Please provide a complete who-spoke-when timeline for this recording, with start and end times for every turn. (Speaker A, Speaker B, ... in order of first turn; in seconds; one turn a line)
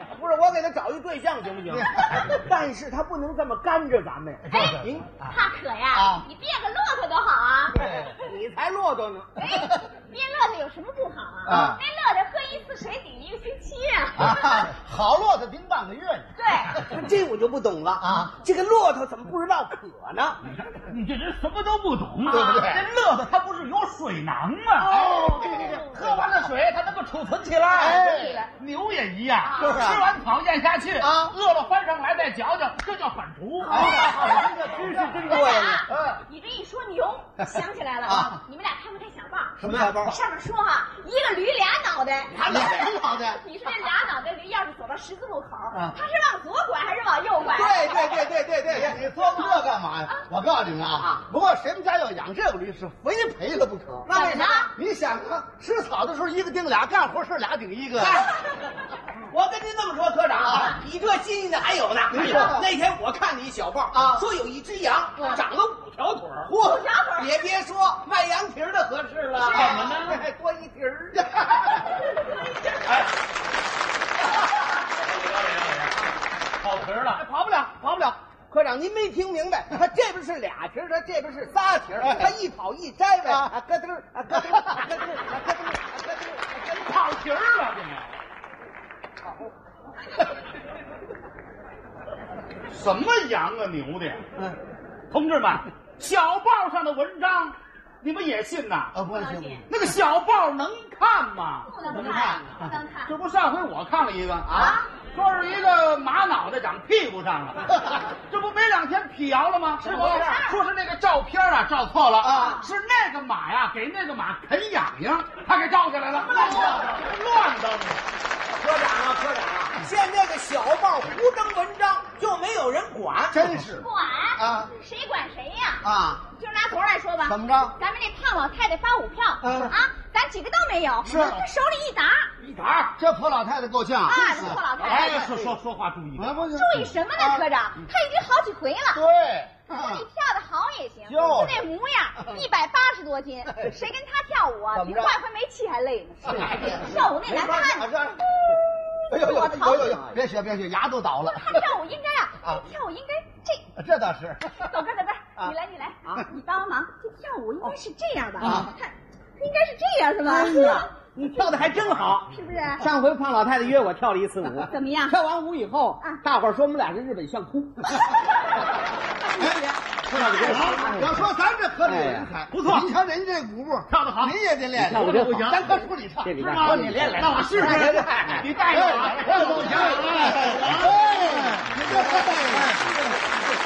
Speaker A: 0.1-5.1
Speaker B: 1.7-2.2
Speaker B: 4.4-4.8
Speaker C: 4.5-7.8
Speaker B: 5.9-6.2
Speaker B: 7.7-8.1
Speaker A: 7.8-9.3
Speaker C: 9.4-14.7
Speaker B: 11.5-11.8
Speaker B: 14.2-16.3
Speaker C: 16.4-16.8
Speaker A: 16.8-20.4
Speaker B: 18.0-18.3
Speaker D: 20.5-36.1
Speaker B: 22.3-22.9
Speaker C: 22.3-22.7
Speaker A: 24.8-25.8
Speaker B: 25.0-26.2
Speaker C: 25.4-25.8
Speaker B: 27.8-28.5
Speaker C: 27.9-28.4
Speaker B: 29.5-30.0
Speaker B: 31.0-31.3
Speaker B: 33.7-35.8
Speaker C: 33.7-34.4
Speaker C: 35.3-48.3
Speaker B: 38.0-38.4
Speaker B: 39.6-40.1
Speaker A: 39.6-40.1
Speaker A: 42.3-43.0
Speaker B: 42.4-43.4
Speaker A: 47.4-49.0
Speaker B: 48.7-54.1
Speaker C: 49.0-50.2
Speaker A: 51.0-51.2
Speaker A: 54.1-54.6
Speaker C: 54.1-54.7
Speaker B: 54.7-58.2
Speaker A: 58.0-58.3
Speaker A: 59.3-71.3
Speaker B: 60.5-60.8
Speaker B: 62.1-62.6
Speaker B: 63.9-64.2
Speaker C: 66.6-67.3
Speaker D: 69.4-70.2
Speaker B: 71.1-71.8
Speaker D: 74.8-76.0
Speaker D: 76.6-77.2
Speaker A: 77.2-86.8
Speaker D: 86.6-88.2
Speaker D: 92.7-94.2
Speaker D: 95.1-99.0
Speaker B: 99.0-99.6
Speaker C: 99.1-99.7
Speaker D: 99.7-101.7
Speaker C: 101.7-103.1
Speaker B: 101.9-102.6
Speaker D: 103.1-107.7
Speaker C: 104.5-104.9
Speaker D: 108.3-118.0
Speaker C: 109.8-110.6
Speaker A: 109.8-110.3
Speaker A: 112.2-112.6
Speaker C: 112.3-112.7
Speaker A: 116.2-116.9
Speaker A: 118.6-123.5
Speaker B: 123.3-123.8
Speaker C: 123.7-132.3
Speaker B: 124.4-124.7
Speaker B: 125.8-126.2
Speaker B: 127.3-127.7
Speaker B: 129.4-129.7
Speaker B: 131.0-131.4
Speaker D: 132.4-132.9
Speaker B: 133.0-135.4
Speaker C: 134.1-135.3
Speaker D: 134.8-136.8
Speaker B: 136.2-137.4
Speaker C: 136.5-139.0
Speaker B: 138.9-140.0
Speaker C: 139.7-147.9
Speaker B: 141.1-141.7
Speaker B: 146.3-148.2
Speaker A: 146.3-146.9
Speaker C: 149.1-150.0
Speaker B: 149.1-151.5
Speaker A: 149.6-150.2
Speaker C: 151.2-153.7
Speaker B: 153.8-154.6
Speaker C: 154.5-160.9
Speaker B: 158.4-158.7
Speaker A: 160.2-167.9
Speaker C: 162.3-162.9
Speaker C: 164.7-165.2
Speaker A: 170.1-171.2
Speaker D: 170.1-170.9
Speaker B: 170.2-176.4
Speaker A: 171.8-172.3
Speaker D: 172.5-172.9
Speaker D: 173.9-174.4
Speaker A: 174.8-178.5
Speaker D: 174.9-175.8
Speaker D: 176.4-181.6
Speaker B: 178.7-182.9
Speaker A: 179.1-180.6